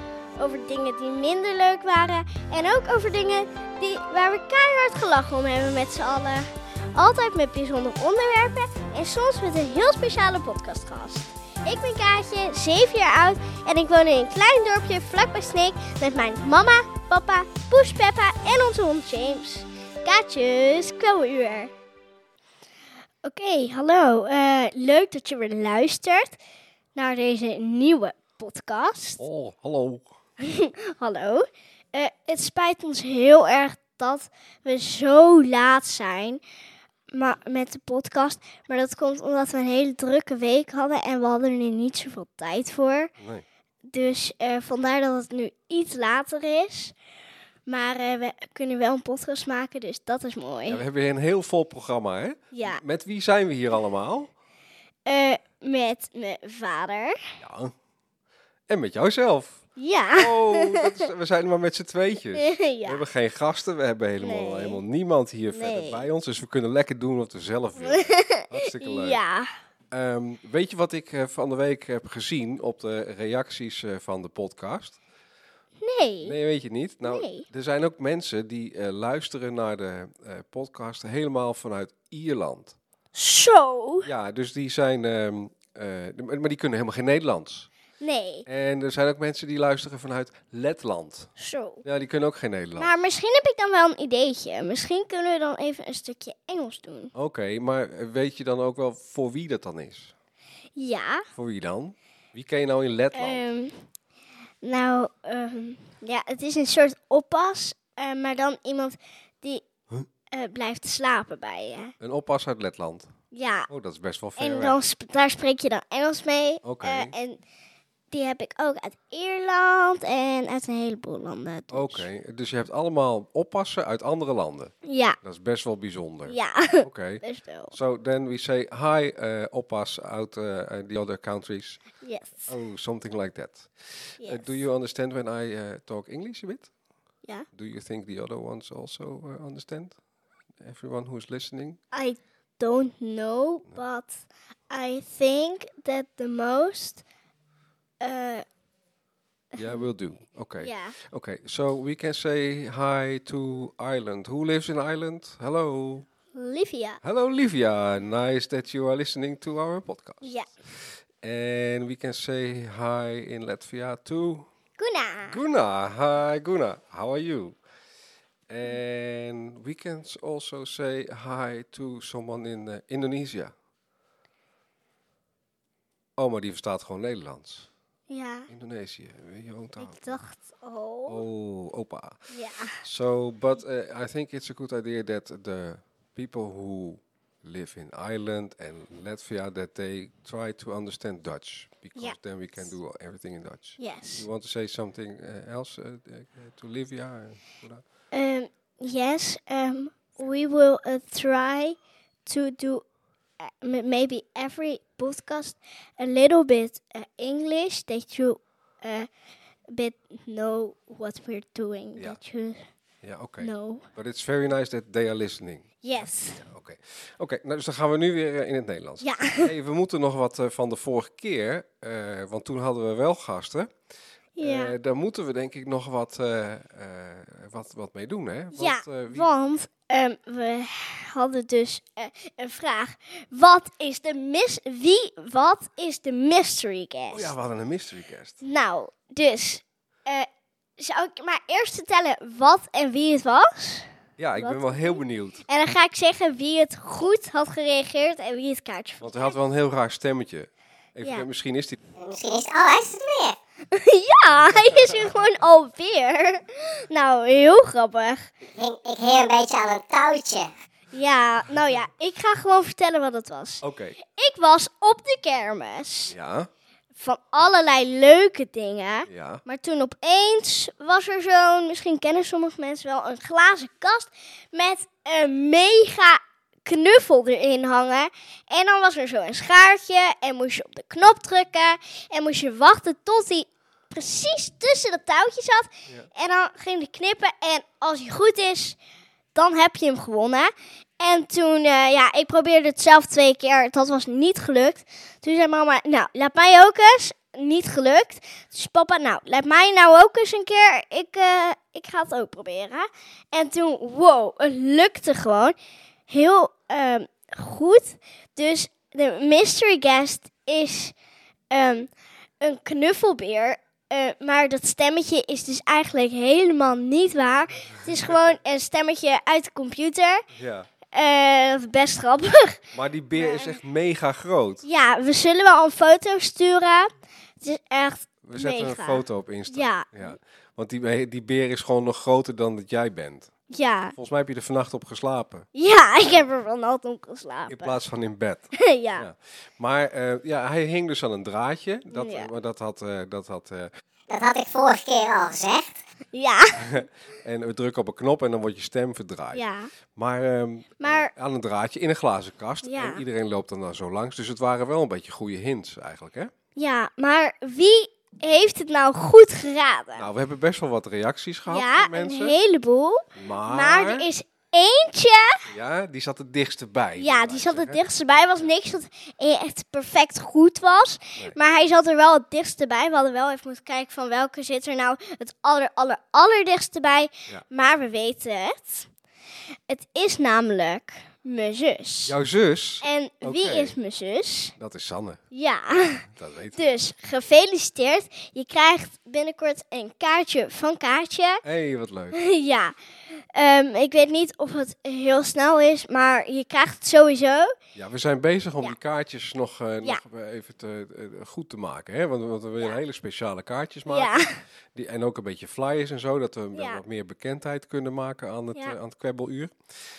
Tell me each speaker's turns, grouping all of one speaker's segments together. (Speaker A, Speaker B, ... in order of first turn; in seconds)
Speaker A: 0.4-21.7, 23.2-26.4, 26.9-29.2, 30.4-36.4, 37.1-43.1, 43.9-47.0, 47.7-50.8, 52.5-52.8, 55.1-57.2, 59.8-61.0, 62.4-63.0, 64.2-64.8, 65.5-66.0, 67.8-69.5, 75.8-76.4, 77.1-77.5, 83.1-84.1, 88.0-88.5, 91.4-91.8, 92.8-97.1, 100.8-101.3, 103.1-103.8, 104.6-109.6, 110.3-111.9, 113.3-113.7, 114.4-117.4, 118.1-122.1, 124.8-125.2, 126.3-127.7, 132.0-132.5, 134.2-134.6, 141.9-147.1, 148.0-148.4, 149.6-149.9, 150.6-151.0, 156.3-157.0, 160.2-160.5, 164.8-165.4, 178.1-178.5, 179.8-181.2, 182.3-182.8, 192.0-192.7, 193.8-194.3, 198.1-202.8, 203.4-209.1, 209.7-212.6, 213.4-213.9, 215.8-216.4, 219.0-219.5, 224.4-224.7, 228.5-237.3, 238.4-249.3, 253.7-258.3, 260.9-266.1, 267.0-288.8, 289.4-305.6, 306.1-310.9, 311.5-320.3, 320.9-322.6, 323.2-323.6, 324.6-330.1, 333.5-333.9, 335.6-337.8, 338.6-339.1, 341.9-342.3, 346.1-346.8, 349.3-349.7, 350.8-351.1, 352.6-353.0, 356.6-360.1, 361.5-365.4, 367.0-378.9, 379.7-382.1, 382.8-384.6, 385.3-386.0, 386.6-391.4, 392.1-397.5, 403.9-404.4, 406.5-406.8
Speaker B: 29.2-30.1, 43.2-43.5, 50.7-54.3, 57.4-57.7, 58.7-59.6, 60.2-69.2, 69.9-75.0, 76.2-82.8, 84.0-87.7, 88.5-91.3, 91.8-92.9, 97.2-100.1, 101.3-103.5, 112.0-113.1, 113.7-114.8, 116.6-117.1, 121.7-131.8, 132.5-136.7, 137.5-140.0, 140.6-141.8, 149.6-156.1, 157.0-160.3, 160.8-164.5, 165.3-167.6, 168.5-173.5, 176.2-177.7, 178.5-180.2, 181.1-182.2, 182.8-197.8, 213.0-223.7, 224.4-229.3, 237.1-238.4, 244.2-245.4, 249.0-251.8, 254.5-255.1, 263.6-264.0, 266.1-266.5, 269.1-269.4, 317.7-318.1, 320.3-320.7, 322.7-324.6, 328.2-333.3, 334.0-335.5, 337.5-343.7, 346.6-349.4, 349.9-356.3, 360.0-362.4, 363.1-364.1, 365.5-367.8, 382.1-383.8, 384.6-386.8, 391.4-392.2, 397.8-404.2, 404.8-409.5
Speaker C: 252.0-253.4, 258.4-260.5, 344.1-345.8